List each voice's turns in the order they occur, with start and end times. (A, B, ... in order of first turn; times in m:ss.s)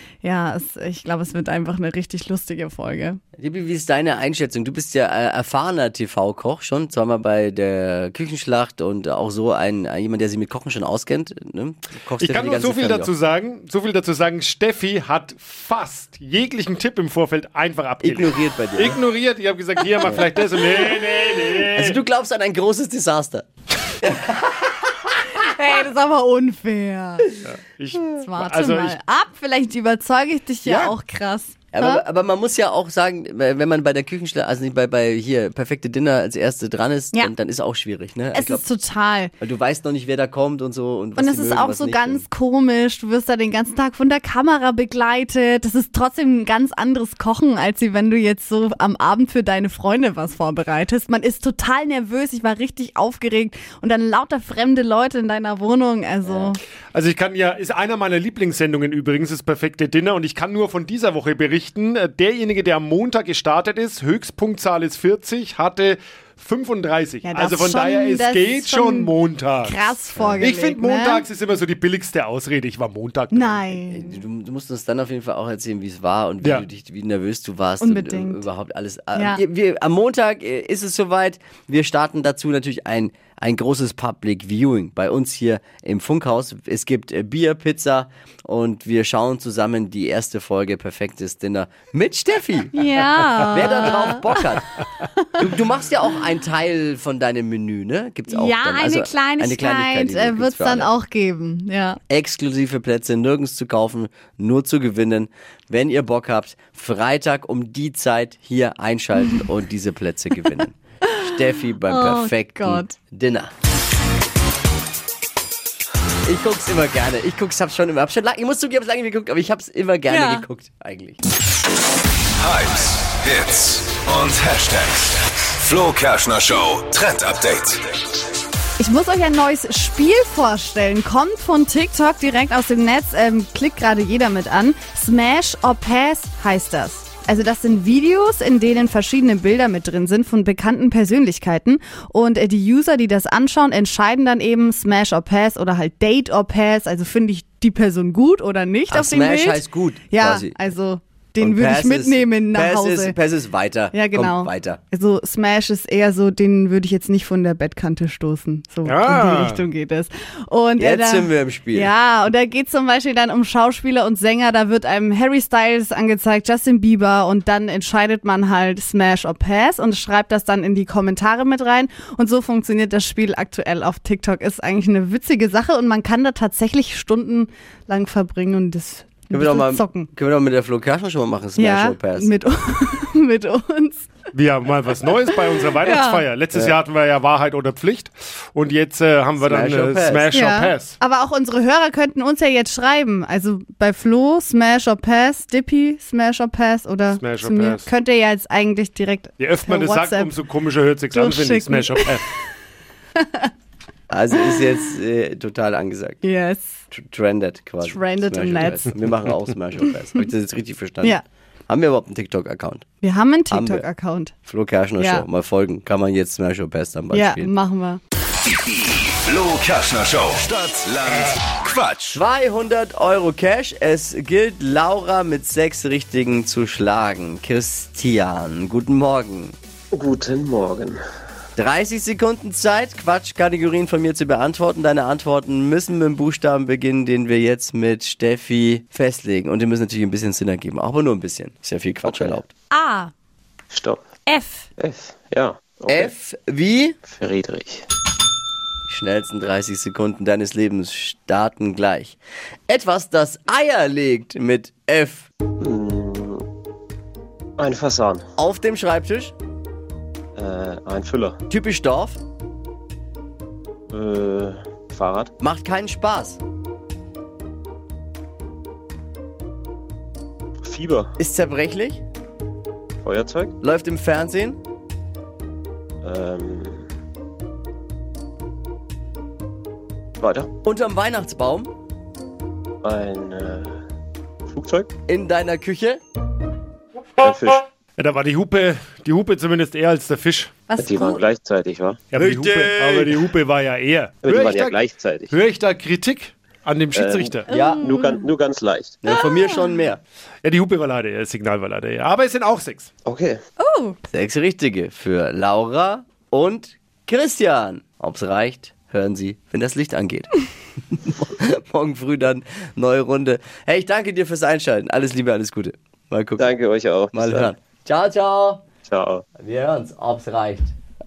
0:00.2-0:03.2 A
0:03.4-0:13.1 B
0:12.2-0:22.0 C
0:18.0-0:19.0 B
0:20.0-0:20.3 B
0:21.3-0:23.5 B
0:24.0-0:24.7 B
0:25.4-0:27.3 A
0:27.5-0:29.0 C
0:28.2-0:32.0 A
0:31.7-0:38.6 B
0:38.3-0:39.3 A
0:39.4-0:42.2 B
0:41.2-0:56.6 A
0:56.9-1:09.8 C
1:07.2-1:09.1 A
1:09.6-1:11.2 A
1:10.2-1:10.4 B
1:10.4-1:13.8 C
1:13.3-1:14.2 A
1:13.9-1:32.8 B
1:16.4-1:16.7 C
1:17.8-1:18.4 A
1:19.2-1:19.4 A
1:32.7-1:34.5 A
1:33.4-1:34.7 B
1:35.0-1:35.5 A
1:35.4-1:40.9 B
1:38.3-1:42.0 A
1:42.1-1:53.5 B
1:51.0-1:51.3 A
1:51.9-1:52.9 A
1:56.2-2:01.2 B
2:00.1-2:00.4 A
2:02.4-2:07.8 D
2:08.8-2:33.2 A
2:28.9-2:30.6 B
2:31.4-2:34.8 B
2:33.9-3:00.1 A
2:38.8-2:39.6 C
2:40.8-2:41.9 B
2:59.3-3:02.3 B
3:01.6-3:04.1 A
3:04.3-3:11.0 C
3:05.8-3:06.2 A
3:09.4-3:10.3 B
3:10.3-3:20.3 A
3:17.1-3:17.9 C
3:19.4-3:22.2 C
3:21.1-3:22.2 A
3:23.2-3:23.5 A
3:24.1-3:26.2 B
3:26.2-3:26.8 A
3:26.9-3:32.8 B
3:27.8-3:28.9 A
3:33.0-3:34.3 A
3:33.5-3:33.9 B
3:34.5-3:37.5 B
3:35.0-3:35.2 A
3:37.1-3:38.0 A
3:39.0-3:42.2 D
3:42.1-3:49.5 B
3:49.9-3:51.0 E
3:51.6-4:02.5 B
4:02.0-4:02.4 E
4:02.7-4:03.1 A
4:03.7-4:04.0 E
4:04.2-4:04.7 A
4:04.8-4:06.1 E
4:05.9-4:07.0 B
4:07.1-4:07.8 E
4:08.9-4:15.3 B
4:15.6-4:16.4 E
4:17.6-4:18.3 E
4:18.4-4:19.3 B
4:20.4-4:21.4 E
4:21.5-4:22.2 B
4:23.9-4:25.3 E
4:25.4-4:26.4 B
4:30.6-4:31.1 E
4:31.2-4:32.0 B
4:33.0-4:33.5 E
4:33.6-4:34.6 B
4:36.0-4:36.8 E
4:40.2-4:40.5 E
4:40.6-4:41.7 B
4:42.8-4:43.7 E
4:44.5-4:44.9 E
4:45.1-4:46.0 B
4:47.2-4:47.6 E
4:48.0-4:50.7 C
4:50.7-4:51.2 A
4:50.8-4:52.1 E
4:52.1-4:57.5 C
4:52.2-4:53.3 B
4:54.2-4:55.4 E
4:56.9-4:59.0 E
4:57.5-4:57.9 B
4:57.5-4:58.3 A
4:59.0-5:00.0 B
4:59.1-4:59.8 A
5:00.4-5:02.9 C
5:03.0-5:03.4 E
5:03.6-5:04.0 A
5:04.1-5:10.3 B
5:11.0-5:16.5 B
5:16.4-5:17.5 E
5:17.1-5:18.6 B
5:18.8-5:19.2 E
5:19.4-5:20.7 B